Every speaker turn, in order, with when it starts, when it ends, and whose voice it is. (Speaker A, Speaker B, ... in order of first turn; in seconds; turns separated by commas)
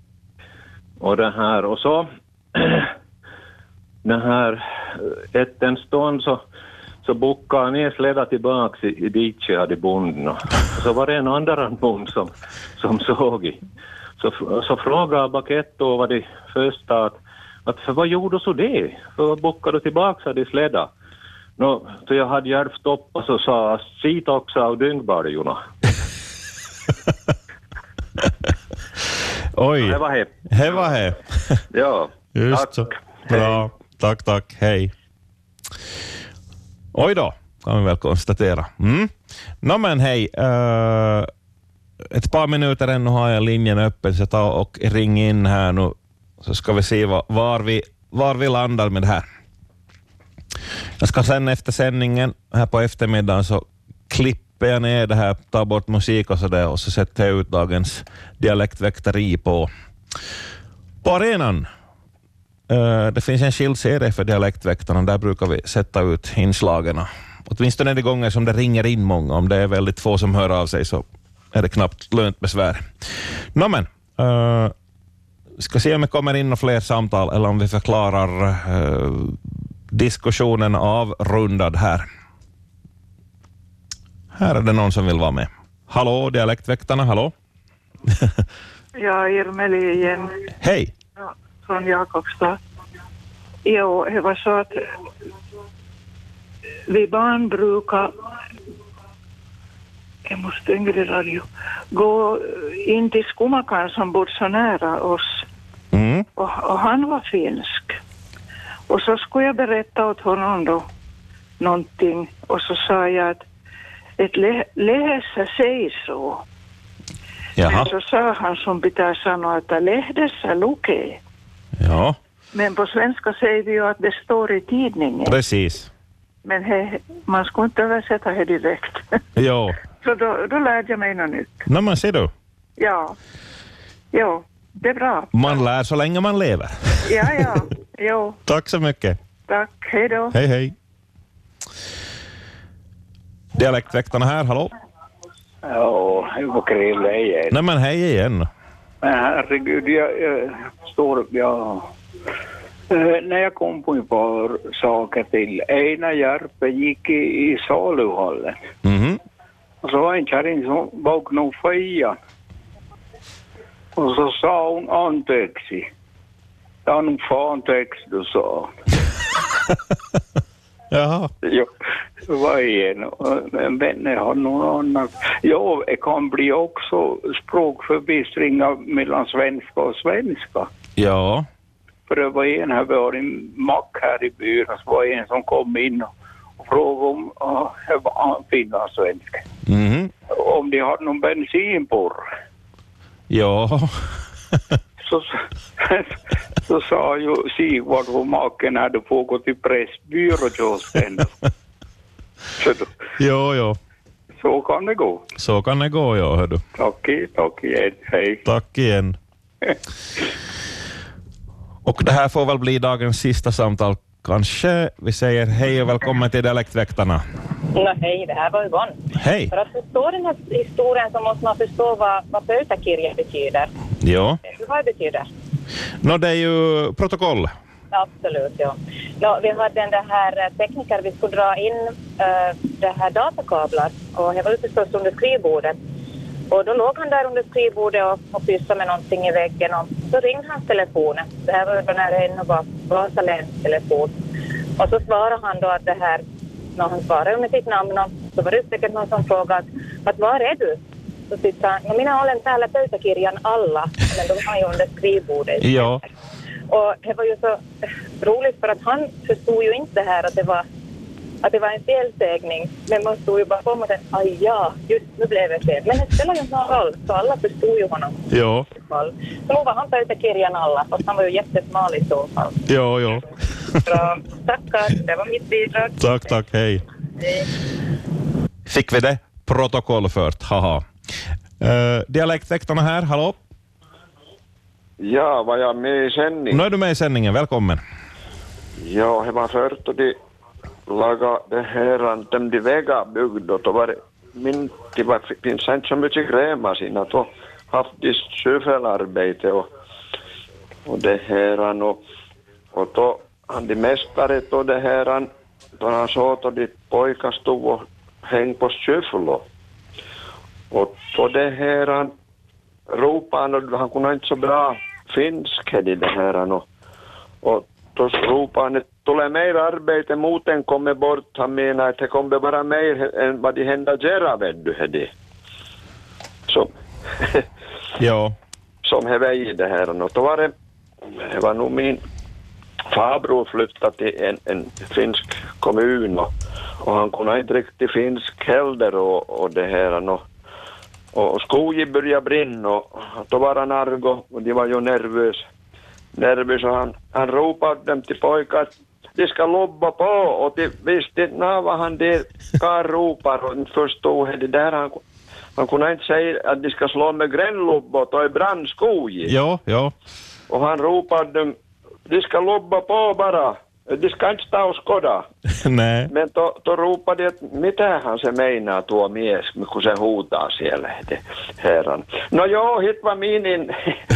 Speaker A: 1.0-2.9, Speaker A: 4.0-6.4, Speaker A: 7.0-13.6, Speaker A: 14.2-20.9, Speaker A: 21.6-25.6, Speaker B: 29.6-30.0, Speaker A: 29.8-30.4, Speaker B: 30.5-31.2, Speaker A: 31.7-33.6, Speaker B: 32.4-34.9, Speaker B: 36.9-41.3, Speaker B: 42.1-49.2, Speaker B: 51.0-59.7, Speaker B: 61.0-61.7, Speaker B: 62.7-74.7, Speaker B: 75.6-79.4, Speaker B: 79.9-82.1, Speaker B: 84.3-87.3, Speaker C: 89.0-90.3, Speaker B: 90.6-90.9, Speaker C: 91.2-92.6, Speaker C: 93.7-94.8, Speaker C: 96.9-98.1, Speaker C: 100.3-105.4, Speaker B: 105.9-106.3, Speaker C: 106.4-108.0, Speaker C: 108.9-110.8, Speaker C: 111.6-113.4, Speaker C: 114.2-116.4, Speaker B: 117.6-117.9, Speaker C: 117.6-121.2, Speaker B: 121.8-122.2, Speaker C: 122.5-125.4, Speaker B: 125.3-125.9, Speaker C: 126.4-129.0, Speaker B: 129.4-129.8, Speaker C: 130.0-131.6, Speaker B: 131.7-132.3, Speaker C: 132.8-133.2, Speaker C: 134.1-135.6, Speaker B: 135.3-137.4, Speaker C: 137.1-138.4, Speaker B: 138.5-139.2, Speaker C: 139.5-140.3, Speaker B: 140.3-140.7, Speaker B: 143.6-144.7, Speaker D: 145.6-147.6, Speaker B: 147.5-148.5, Speaker D: 149.0-151.9, Speaker D: 152.9-158.6, Speaker B: 158.8-159.2, Speaker D: 159.8-162.2, Speaker D: 164.0-165.9, Speaker D: 166.9-168.7, Speaker B: 170.9-171.3, Speaker D: 172.3-180.7, Speaker B: 181.0-181.5, Speaker D: 182.1-189.4, Speaker B: 189.7-190.1, Speaker D: 190.3-192.2, Speaker B: 193.3-193.9, Speaker D: 195.0-201.3, Speaker D: 202.6-202.9, Speaker B: 203.2-203.8, Speaker D: 204.4-205.2, Speaker B: 205.4-206.6, Speaker D: 206.8-208.4, Speaker B: 208.4-209.2, Speaker B: 211.9-217.2, Speaker E: 217.8-219.0, Speaker B: 219.2-219.5, Speaker E: 219.5-223.7, Speaker B: 224.0-224.4, Speaker E: 224.4-225.3, Speaker B: 226.0-227.5, Speaker E: 227.9-235.8, Speaker E: 236.5-244.2, Speaker E: 244.8-246.2, Speaker E: 246.8-256.0, Speaker B: 255.6-256.0, Speaker E: 256.7-257.6, Speaker E: 258.2-260.6, Speaker E: 261.4-272.6, Speaker B: 268.3-268.7, Speaker B: 272.7-273.3, Speaker E: 273.9-276.3, Speaker B: 276.0-276.8, Speaker B: 278.7-280.9, Speaker B: 281.6-283.4, Speaker F: 285.0-286.6, Speaker B: 286.5-287.8, Speaker F: 288.8-290.1, Speaker F: 290.9-299.7, Speaker F: 300.9-302.0, Speaker F: 302.7-309.4, Speaker F: 310.7-312.1, Speaker F: 312.9-316.6, Speaker F: 317.4-325.1, Speaker F: 326.5-327.4, Speaker B: 328.0-328.4, Speaker F: 328.9-330.5, Speaker F: 331.1-332.0, Speaker F: 332.9-336.3, Speaker F: 336.8-340.2, Speaker F: 341.1-345.4, Speaker F: 346.2-355.0, Speaker F: 355.6-359.3, Speaker B: 359.2-359.9, Speaker F: 360.5-361.6, Speaker F: 362.1-365.3, Speaker B: 365.6-366.1, Speaker F: 366.1-373.7